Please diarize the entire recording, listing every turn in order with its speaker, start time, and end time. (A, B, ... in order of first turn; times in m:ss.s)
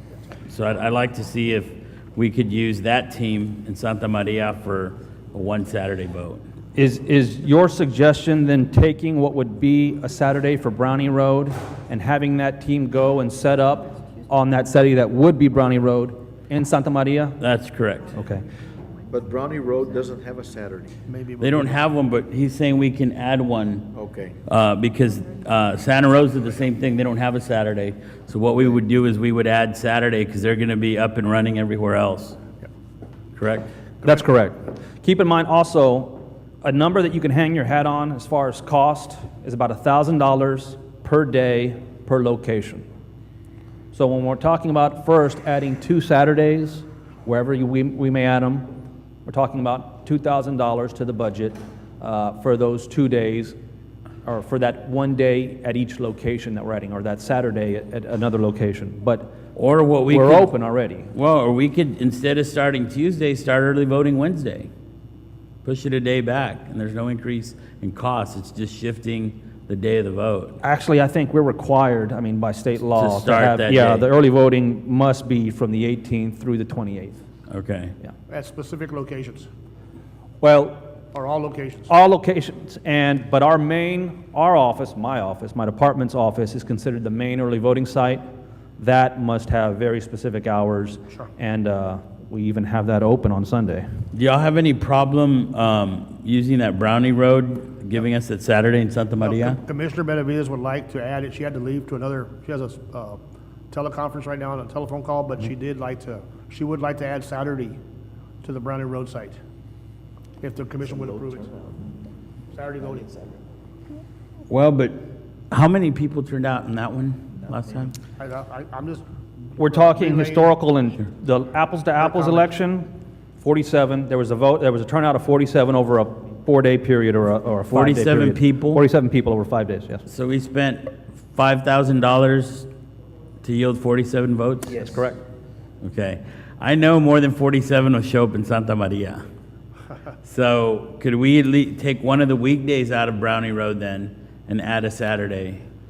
0:00.5-0:06.4 A
0:06.7-0:17.4 B
0:17.4-0:18.1 A
0:18.1-0:18.4 B
0:19.1-0:21.0 C
0:21.1-0:21.8 D
0:21.4-0:23.9 A
0:23.9-0:24.4 C
0:24.4-0:32.4 A
0:33.4-0:33.7 A
0:34.0-0:42.8 B
0:43.9-0:48.7 B
0:49.2-0:53.6 B
0:54.2-0:59.4 B
0:59.5-1:00.5 A
1:00.1-1:01.1 B
1:01.1-1:04.7 A
1:05.6-1:10.6 A
1:10.6-1:17.2 B
1:13.0-1:14.1 A
1:17.5-1:17.9 A
1:18.3-1:19.5 D
1:20.4-1:20.9 B
1:21.1-1:21.9 D
1:21.9-1:28.2 B
1:28.8-1:33.8 B
1:34.1-1:39.6 A
1:39.2-1:43.2 D
1:43.7-1:47.8 D
1:48.4-1:49.4 D
1:50.4-1:51.5 D
1:50.9-1:51.8 C
1:52.5-1:53.1 D
1:52.8-1:53.4 C
1:54.5-1:57.9 A
1:57.4-1:57.7 C
1:58.2-1:59.0 D
1:59.6-2:00.5 D
1:59.6-2:10.0 B
2:02.0-2:02.4 D
2:07.7-2:08.8 A
2:10.1-2:12.7 A
2:13.4-2:14.9 A
2:14.7-2:15.0 C
2:14.8-2:15.2 B
2:15.8-2:19.2 A
2:20.2-2:25.6 A